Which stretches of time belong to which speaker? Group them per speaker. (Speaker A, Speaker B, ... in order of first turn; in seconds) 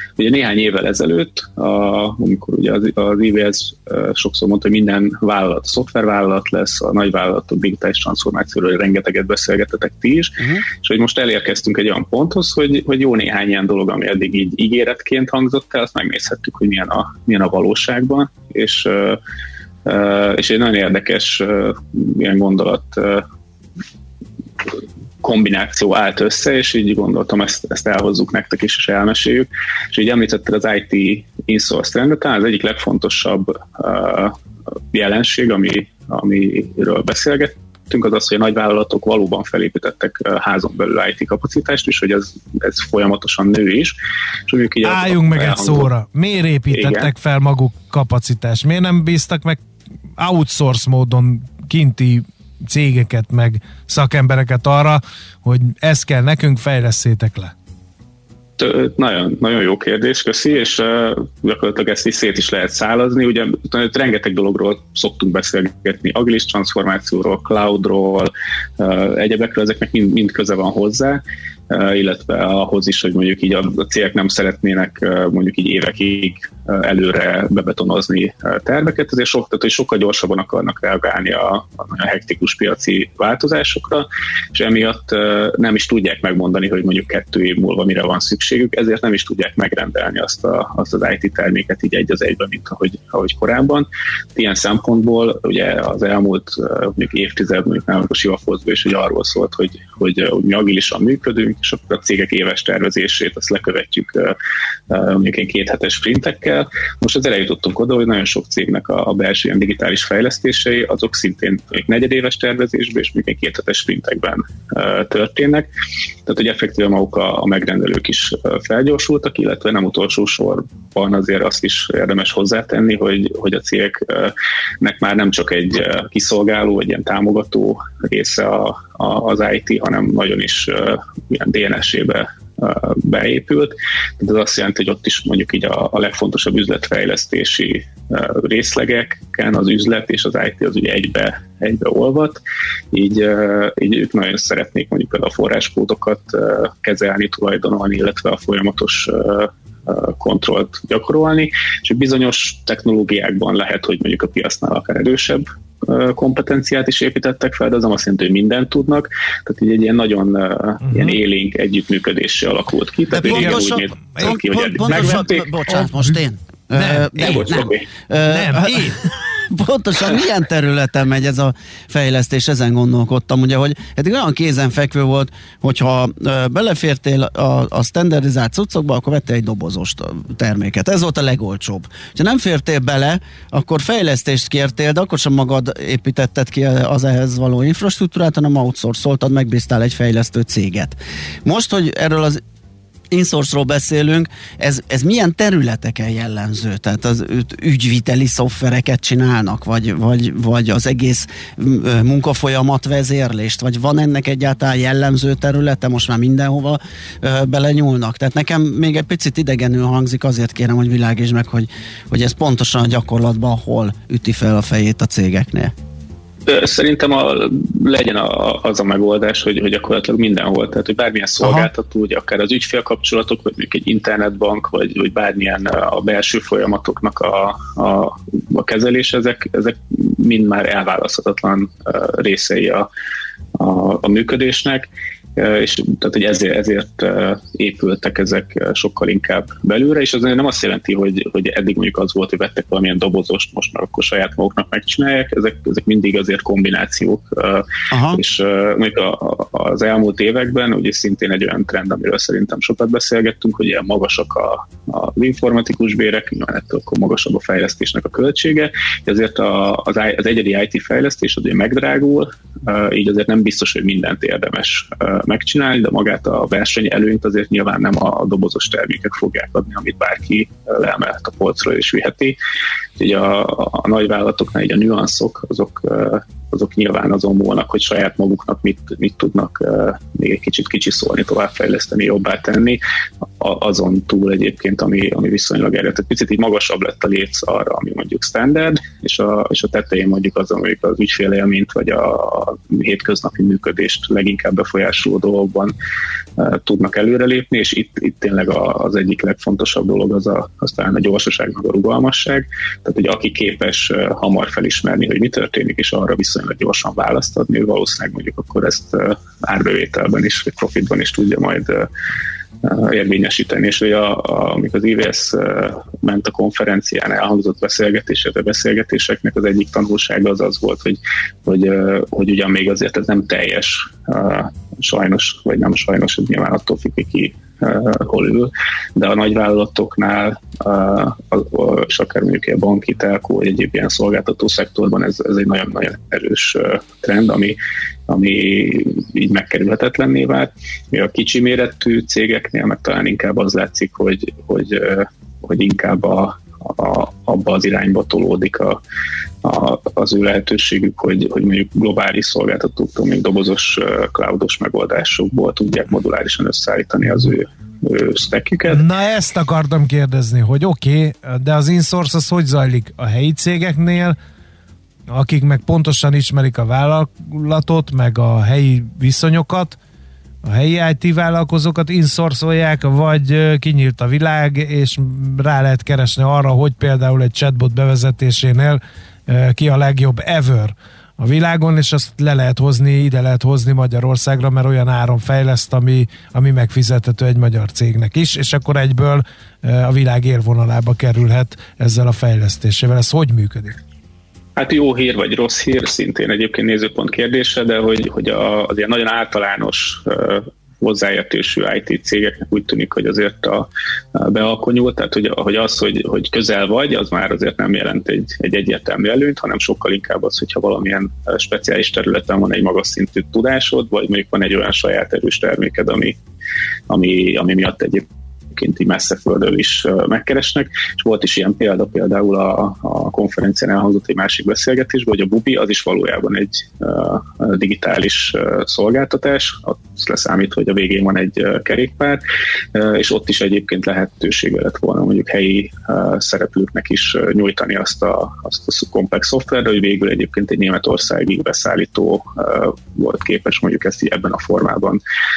Speaker A: 0.2-19.2, 19.9-23.2, 25.2-34.3, 34.9-44.0, 44.5-45.9, 46.7-47.1, 58.6-104.3, 104.9-115.7, 116.3-142.4, 142.9-165.5, 167.2-167.8, 216.5-232.8, 233.6-272.4, 273.0-282.8, 283.4-295.7, 296.4-311.9, 312.6-337.6, 338.1-348.8, 349.4-358.8, 394.6-416.2, 416.9-432.2, 432.7-445.0
Speaker B: 10.4-10.7, 163.2-192.4, 193.1-215.7, 221.4-221.7, 247.9-248.2
Speaker C: 44.8-49.6, 50.2-57.5, 160.8-161.2, 163.2-165.2, 166.7-167.5, 168.2-169.1, 358.7-364.2, 365.1-369.8, 370.4-393.8